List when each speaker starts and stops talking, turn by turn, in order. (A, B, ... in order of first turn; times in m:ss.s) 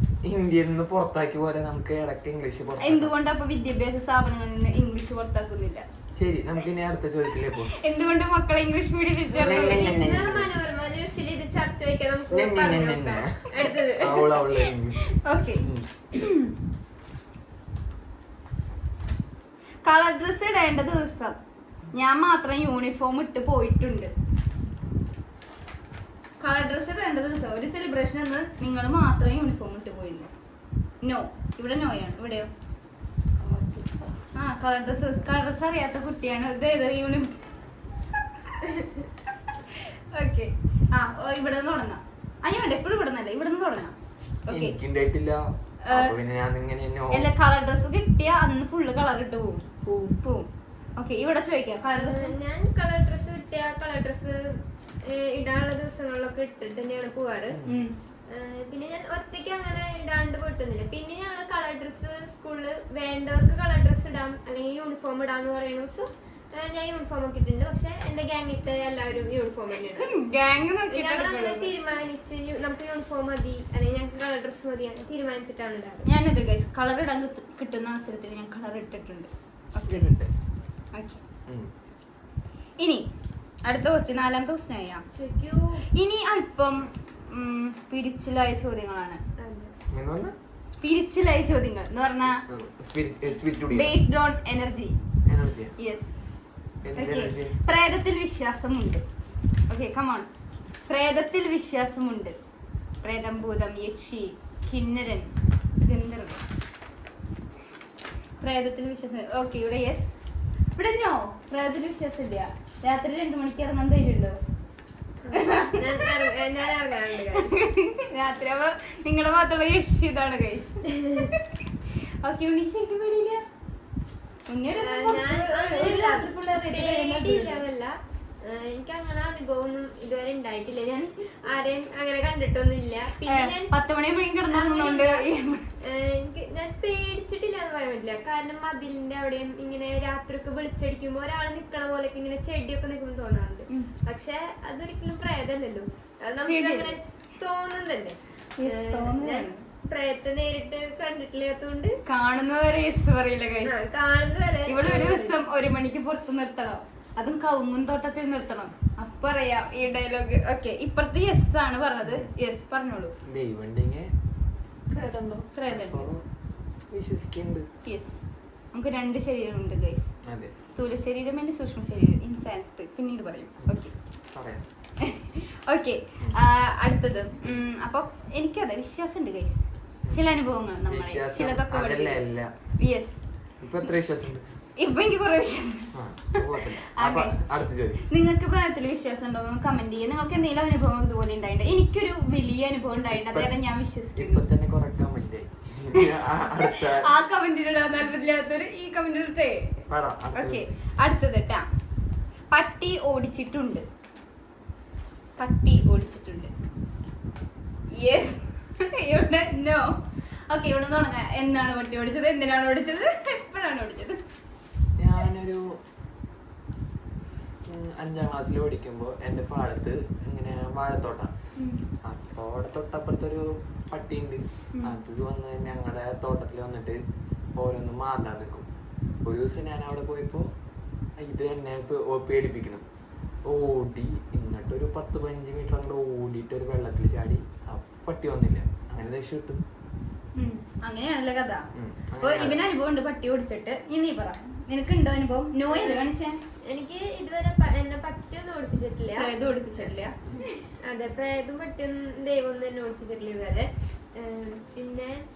0:00.2-0:03.1 A
0:02.8-0:05.8 B
0:06.2-0:07.7 A
0:07.7-0:10.1 B
0:09.3-0:14.4 C
0:09.4-0:10.5 A
0:12.3-0:15.9 A
0:15.1-0:16.5 B
0:19.8-0:21.4 B
0:21.9-0:24.1 B
0:26.4-0:30.3 B
0:31.0-0:32.5 B
0:33.4-0:34.1 A
0:34.3-0:37.3 B
0:39.7-0:43.9 B
0:44.4-0:44.8 B
0:44.5-0:47.3 A
0:45.8-0:46.1 B
0:47.1-0:49.7 B
0:49.8-0:50.2 A
0:50.2-0:52.3 B
0:51.9-0:57.6 C
0:57.5-0:57.8 A
0:57.6-0:57.9 B
0:58.3-1:10.2 C
1:09.9-1:11.7 B
1:10.9-1:16.1 C
1:16.0-1:20.1 B
1:19.8-1:20.3 A
1:20.9-1:21.2 B
1:21.5-1:21.7 A
1:23.6-1:25.0 B
1:25.2-1:25.8 C
1:25.9-1:29.2 B
1:29.4-1:29.7 C
1:29.9-1:30.3 A
1:30.7-1:32.4 B
1:32.4-1:34.0 A
1:33.7-1:35.0 B
1:35.2-1:35.7 A
1:35.8-1:36.1 B
1:36.8-1:37.6 A
1:36.9-1:39.0 B
1:39.7-1:40.3 B
1:40.9-1:42.4 B
1:43.0-1:46.4 B
1:48.4-1:50.1 B
1:50.8-1:54.4 B
1:55.2-1:57.5 C
1:55.3-1:56.2 B
1:57.3-2:01.6 B
2:00.9-2:01.3 C
2:02.2-2:03.4 B
2:04.5-2:07.6 B
2:04.7-2:13.8 C
2:13.2-2:15.6 B
2:14.5-2:15.2 C
2:15.8-2:32.0 C
2:26.4-2:27.0 B
2:28.6-2:29.6 B
2:32.0-2:33.8 B
2:33.6-2:35.4 C
2:34.6-2:43.1 B
2:42.0-2:42.3 A
2:43.2-2:44.1 A
2:44.9-2:46.2 A
2:45.5-2:46.1 B
2:46.9-2:47.7 A
2:47.8-2:48.2 B
2:48.7-2:50.1 B
2:50.2-2:50.5 A
2:50.7-2:53.9 B
2:54.3-2:54.6 A
2:55.0-3:02.2 B
3:00.8-3:02.5 A
3:02.8-3:03.2 B
3:03.6-3:04.5 A
3:04.8-3:07.4 B
3:05.9-3:08.0 A
3:08.0-3:14.4 B
3:13.1-3:13.6 A
3:14.1-3:17.1 A
3:16.8-3:19.8 B
3:19.9-3:20.7 A
3:20.3-3:21.7 B
3:22.5-3:23.8 B
3:25.4-3:26.5 B
3:27.9-3:30.0 B
3:30.5-3:34.2 B
3:35.0-3:35.6 A
3:37.6-3:41.3 A
3:41.6-3:41.8 B
3:42.0-3:47.0 A
3:47.5-3:48.7 A
3:49.2-3:50.5 A
3:51.2-3:52.8 A
3:53.4-3:59.6 A
4:00.4-4:01.6 B
4:01.7-4:02.6 A
4:02.2-4:06.4 B
4:05.7-4:06.1 C
4:06.6-4:09.9 C
4:09.2-4:10.6 B
4:10.8-4:15.2 C